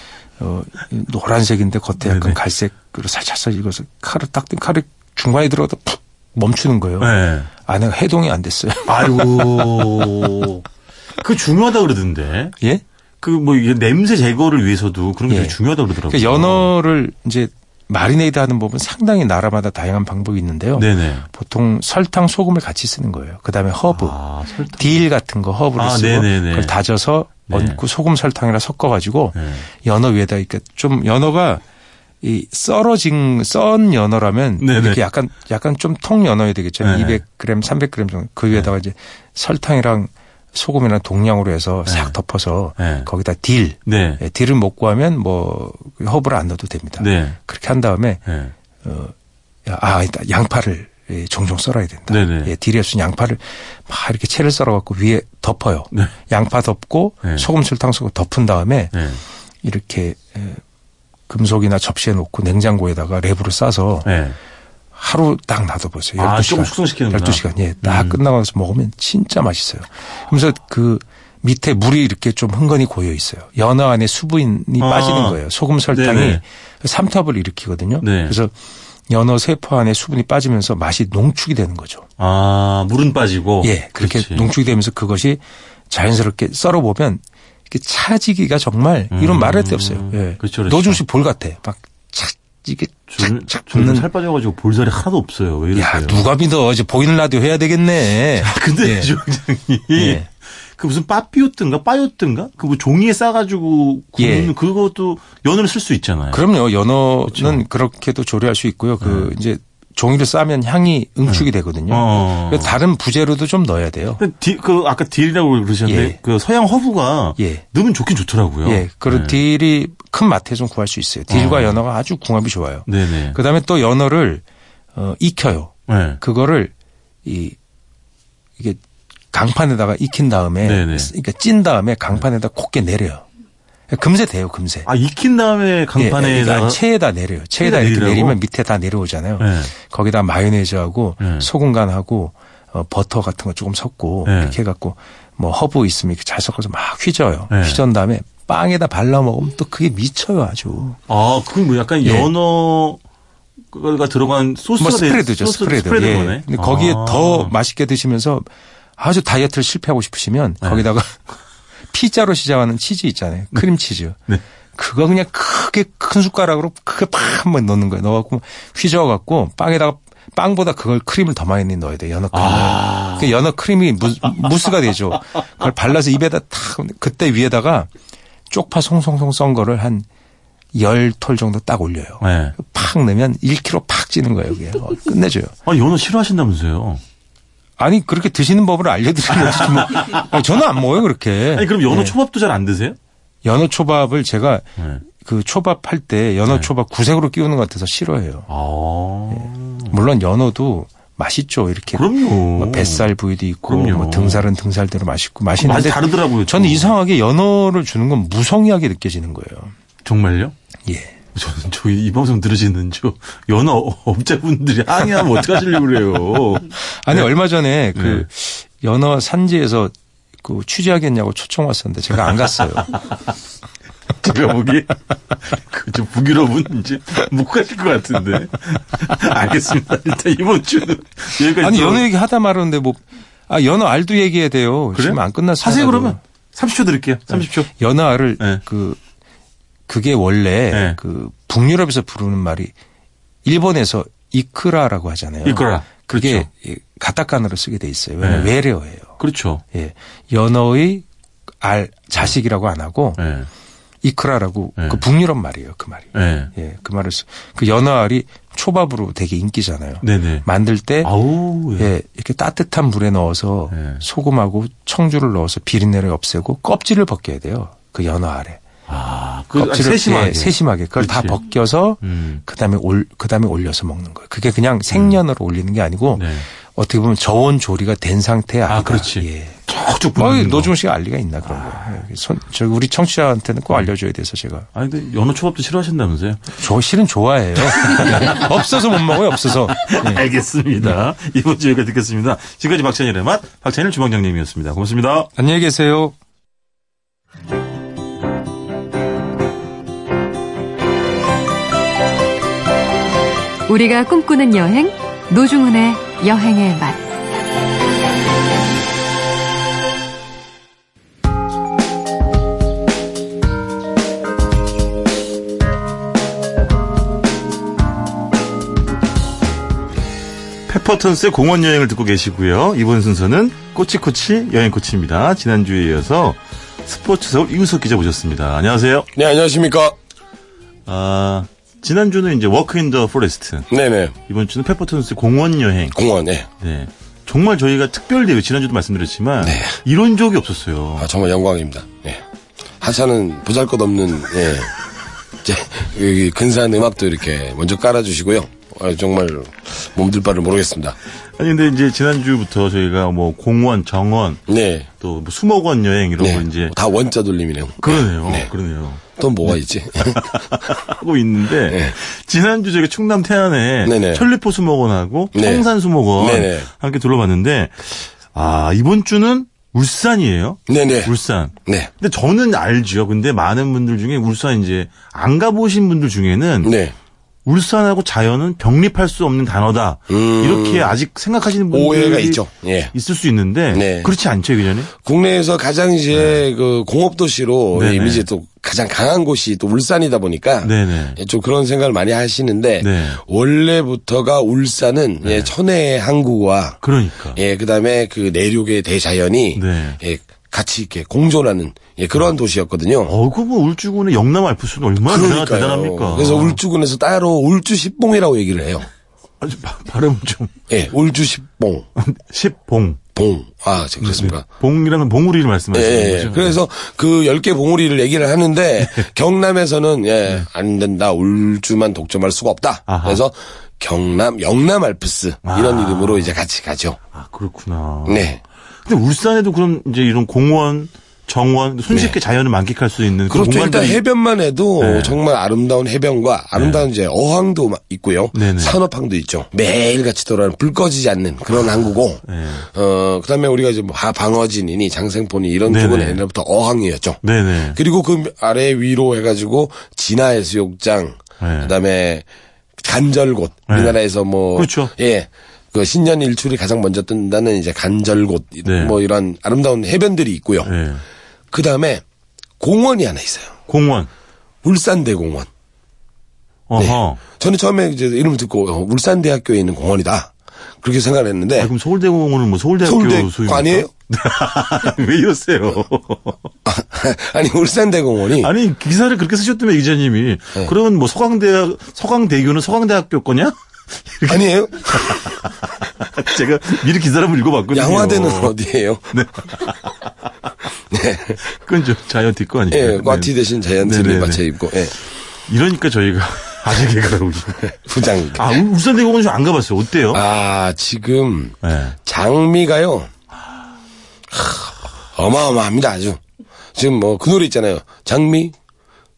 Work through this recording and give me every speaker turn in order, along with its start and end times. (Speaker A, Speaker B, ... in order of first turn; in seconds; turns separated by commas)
Speaker A: 0.4-10.1, Speaker B: 2.0-2.4, Speaker B: 7.0-7.5, Speaker B: 8.8-10.6, Speaker B: 11.2-12.6, Speaker B: 13.2-16.7, Speaker A: 15.3-15.6, Speaker A: 16.1-24.2, Speaker B: 20.8-21.3, Speaker B: 23.9-25.0, Speaker A: 24.7-31.6, Speaker B: 25.8-26.8, Speaker B: 27.5-27.8, Speaker B: 29.3-29.6, Speaker A: 32.2-48.2, Speaker B: 34.6-35.0, Speaker B: 36.8-37.2, Speaker B: 41.9-42.1, Speaker B: 42.8-43.1, Speaker B: 43.9-44.2, Speaker B: 47.0-47.4, Speaker B: 48.2-48.5, Speaker A: 48.8-49.1, Speaker A: 49.6-59.0, Speaker B: 52.1-52.5, Speaker B: 58.9-59.2, Speaker A: 59.6-60.6, Speaker A: 61.3-64.1, Speaker B: 64.0-64.4, Speaker A: 65.0-78.5, Speaker B: 66.2-68.2, Speaker B: 74.8-76.4, Speaker B: 78.0-78.4, Speaker A: 79.1-82.0, Speaker B: 82.2-84.5, Speaker A: 83.6-94.1, Speaker B: 89.1-91.0, Speaker B: 93.1-96.3, Speaker A: 95.7-99.1, Speaker B: 98.4-100.2, Speaker A: 99.9-100.3, Speaker B: 100.7-106.4, Speaker A: 104.2-104.5, Speaker A: 106.3-114.2, Speaker B: 107.3-107.6, Speaker B: 109.0-109.3, Speaker B: 111.3-112.7, Speaker B: 114.2-119.4, Speaker A: 115.8-116.2, Speaker A: 117.4-117.6, Speaker A: 118.6-124.4, Speaker B: 121.3-121.8, Speaker B: 122.9-123.4, Speaker A: 124.9-126.7, Speaker B: 125.9-126.2, Speaker A: 127.2-127.5, Speaker A: 129.3-133.2, Speaker B: 130.6-131.1, Speaker A: 133.9-134.9, Speaker B: 134.8-136.8, Speaker A: 135.9-151.0, Speaker B: 137.6-138.4, Speaker B: 139.4-139.7, Speaker B: 141.2-141.5, Speaker B: 144.2-144.6, Speaker B: 147.5-147.8, Speaker B: 151.1-153.0, Speaker A: 152.0-152.3, Speaker B: 153.7-157.5, Speaker A: 154.8-158.5, Speaker A: 159.0-161.2, Speaker A: 161.9-164.2, Speaker A: 164.8-177.9, Speaker B: 172.3-173.3, Speaker A: 178.5-180.1, Speaker A: 180.7-185.5, Speaker B: 182.2-182.6, Speaker B: 185.7-187.0, Speaker A: 187.8-192.2, Speaker B: 189.3-190.4, Speaker B: 191.5-193.0, Speaker A: 193.4-198.5, Speaker B: 198.5-200.0, Speaker A: 199.3-209.7, Speaker B: 201.9-203.1, Speaker B: 203.7-204.5, Speaker B: 205.6-206.9, Speaker B: 210.0-210.5, Speaker A: 210.9-211.1, Speaker B: 211.3-217.3, Speaker A: 217.0-219.9, Speaker B: 217.9-218.3, Speaker A: 220.4-222.9, Speaker B: 224.2-232.1, Speaker A: 231.6-236.2, Speaker B: 234.9-237.7, Speaker A: 237.3-239.0, Speaker A: 239.9-242.7, Speaker B: 240.7-241.0, Speaker A: 243.4-249.2, Speaker B: 245.4-246.5, Speaker B: 248.2-248.5, Speaker B: 249.2-249.6, Speaker A: 249.7-251.0, Speaker A: 251.6-253.2, Speaker B: 253.2-253.5, Speaker A: 254.0-261.1, Speaker B: 256.1-256.5, Speaker B: 260.0-260.4, Speaker B: 261.0-261.9, Speaker A: 261.8-268.6, Speaker B: 263.7-264.0, Speaker B: 268.9-271.4, Speaker A: 269.6-279.6, Speaker B: 272.0-272.4, Speaker B: 274.9-275.2, Speaker B: 276.1-276.4, Speaker B: 278.7-280.7, Speaker A: 280.1-284.7, Speaker B: 281.4-282.0, Speaker B: 284.7-286.5, Speaker A: 286.6-290.2, Speaker B: 287.7-288.6, Speaker B: 289.7-295.3, Speaker A: 295.4-296.1, Speaker C: 303.7-307.0, Speaker B: 320.7-329.1, Speaker D: 329.1-329.9, Speaker B: 330.9-333.7, Speaker D: 333.7-334.1, Speaker B: 334.2-336.0, Speaker D: 335.9-336.5, Speaker B: 336.6-341.1, Speaker D: 339.4-339.8, Speaker D: 341.0-342.2, Speaker D: 342.8-344.7, Speaker D: 345.4-350.9, Speaker B: 351.4-354.4, Speaker D: 354.5-354.9, Speaker B: 355.0-356.7, Speaker D: 356.2-358.5, Speaker B: 357.8-376.7, Speaker D: 359.1-360.2, Speaker D: 361.7-361.9, Speaker D: 363.8-364.2, Speaker D: 365.3-365.6, Speaker D: 366.2-366.7, Speaker D: 370.7-371.1, Speaker D: 371.6-371.9, Speaker D: 376.6-376.9, Speaker B: 377.4-384.9, Speaker D: 380.1-380.9, Speaker D: 381.7-382.9, Speaker D: 383.7-384.1, Speaker D: 385.0-396.8, Speaker B: 386.1-386.4, Speaker B: 387.7-388.2, Speaker B: 390.6-391.2, Speaker B: 392.8-393.2, Speaker B: 395.2-395.5, Speaker B: 396.8-397.4, Speaker D: 397.3-403.1, Speaker B: 399.5-400.0, Speaker B: 403.1-406.6, Speaker D: 405.1-408.9, Speaker B: 409.4-410.5, Speaker D: 410.7-411.9, Speaker B: 412.0-413.0, Speaker D: 413.1-414.4, Speaker B: 414.0-416.6, Speaker D: 415.7-427.0, Speaker B: 422.9-423.2, Speaker B: 425.4-426.3, Speaker B: 427.1-428.3, Speaker D: 428.1-428.4, Speaker B: 428.8-434.0, Speaker D: 431.9-432.1, Speaker D: 433.3-447.2, Speaker B: 434.8-435.2, Speaker B: 436.5-436.9, Speaker B: 438.3-438.8, Speaker B: 442.2-442.6, Speaker B: 445.6-446.2, Speaker B: 447.2-447.8, Speaker D: 447.7-452.2, Speaker B: 451.4-451.7, Speaker D: 452.8-460.7, Speaker B: 453.7-454.0, Speaker B: 454.6-454.9, Speaker B: 458.6-459.0, Speaker B: 460.6-461.0, Speaker D: 461.5-462.0, Speaker D: 462.6-463.6, Speaker B: 463.7-464.1, Speaker D: 464.6-465.5, Speaker B: 466.7-467.2, Speaker D: 466.8-471.7, Speaker B: 471.6-476.5, Speaker D: 472.8-473.9, Speaker D: 476.7-478.5, Speaker B: 478.4-488.5, Speaker D: 484.2-485.2, Speaker D: 487.7-489.1, Speaker B: 489.1-490.1, Speaker D: 490.9-491.4, Speaker B: 491.5-494.5, Speaker D: 492.7-494.9, Speaker B: 495.5-500.2, Speaker D: 497.8-498.5, Speaker D: 500.1-503.1, Speaker B: 501.6-501.9, Speaker D: 504.3-506.2, Speaker D: 506.7-508.5